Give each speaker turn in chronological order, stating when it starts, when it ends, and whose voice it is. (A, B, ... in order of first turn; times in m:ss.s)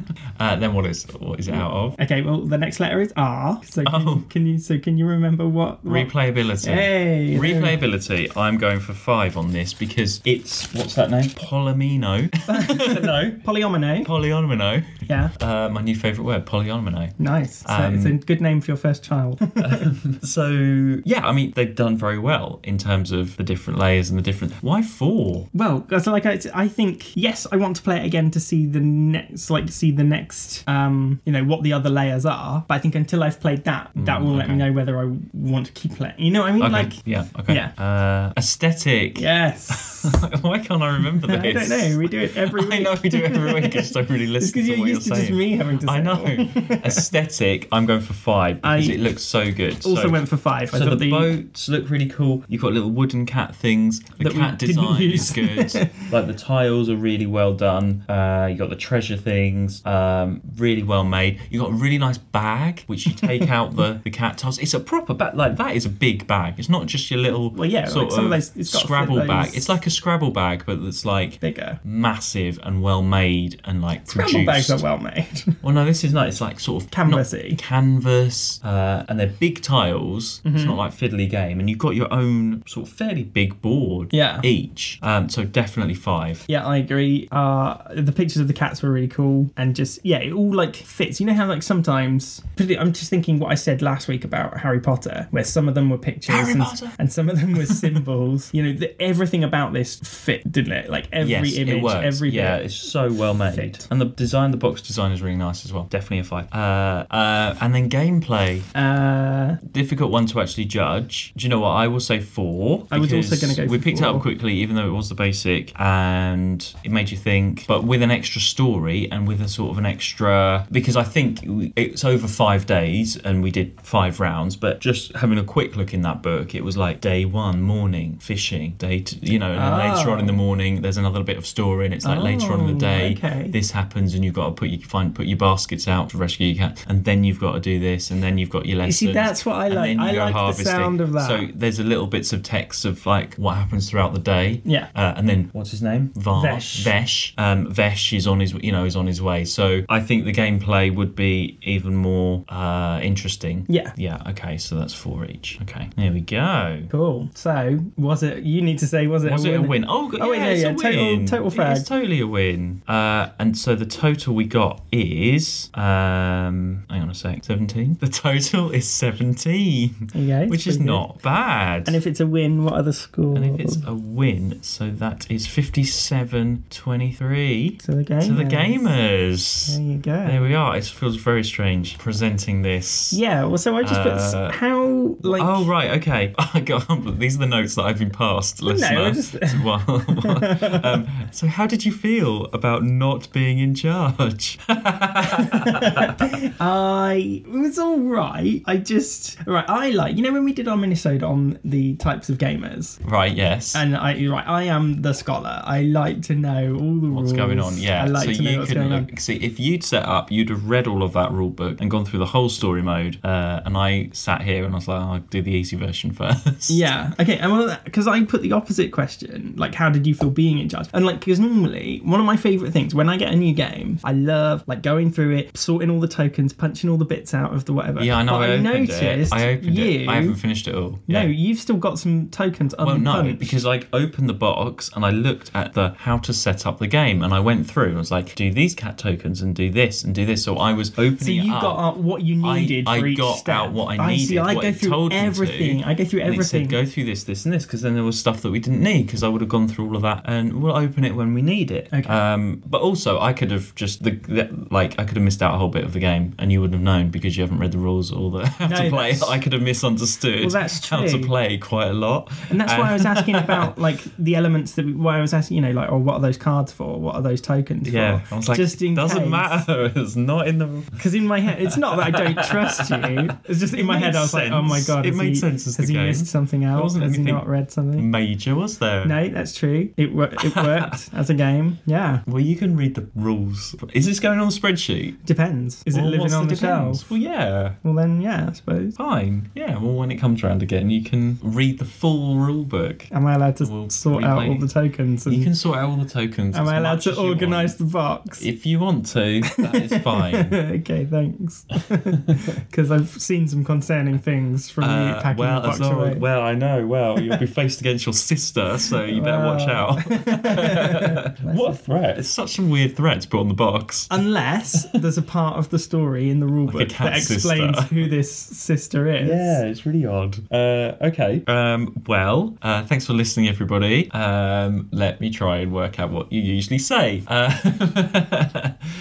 0:00.4-0:02.0 A
0:01.5-0:07.8 B
0:03.8-0:04.2 A
0:05.8-0:13.4 A
0:12.5-0:14.1 B
0:14.0-0:18.2 A
0:15.1-0:15.3 B
0:17.2-0:19.9 B
0:19.6-0:25.5 A
0:25.5-0:37.7 B
0:34.0-0:34.7 A
0:36.6-1:14.8 A
0:39.1-0:40.2 B
0:41.2-0:47.1 B
0:48.6-0:49.0 B
0:49.8-0:51.3 B
0:54.2-0:55.9 B
1:07.5-1:09.8 B
1:11.4-1:11.8 B
1:14.1-1:15.6 B
1:15.6-1:26.4 A
1:16.9-1:17.6 B
1:20.4-1:20.8 B
1:24.1-1:24.5 B
1:26.5-1:42.7 B
1:36.3-1:37.0 A
1:41.2-1:48.7 A
1:43.5-1:43.8 B
1:48.7-1:49.6 B
1:49.6-2:36.9 A
1:52.9-1:54.3 B
2:09.5-2:10.4 B
2:12.0-2:13.6 B
2:18.8-2:21.5 B
2:24.6-2:24.9 B
2:26.3-2:26.9 B
2:33.7-2:33.9 B
2:36.9-2:41.9 B
2:39.2-2:49.9 A
2:50.1-2:51.1 B
2:50.5-2:52.0 A
2:51.8-2:53.8 B
2:53.3-3:03.2 A
2:57.8-2:58.9 B
2:59.6-3:00.4 B
3:03.1-3:05.7 B
3:03.8-3:04.6 A
3:05.2-3:16.3 A
3:08.7-3:11.0 B
3:15.3-3:23.0 B
3:23.0-3:23.8 A
3:23.7-3:29.1 B
3:27.1-3:36.9 A
3:36.7-3:50.4 B
3:48.0-3:51.3 A
3:51.1-3:53.6 B
3:52.8-4:01.8 A
4:01.2-4:06.8 B
4:02.4-4:23.8 A
4:11.9-4:12.2 B
4:18.6-4:19.4 B
4:20.4-4:21.3 B
4:22.5-4:29.6 B
4:27.8-4:31.1 A
4:31.0-4:38.1 B
4:31.6-4:39.2 A
4:39.0-4:42.2 B
4:40.4-4:40.9 A
4:42.3-4:45.2 A
4:45.2-4:47.0 B
4:45.9-4:47.8 A
4:47.8-4:49.0 B
4:49.0-4:54.7 A
4:53.1-4:55.5 B
4:55.2-4:57.7 A
4:56.5-4:58.5 B
4:58.3-5:00.6 A
5:00.3-5:06.2 B
5:04.8-5:14.2 A
5:09.0-5:11.8 B
5:14.1-5:19.6 B
5:16.7-5:18.1 A
5:19.2-5:28.7 A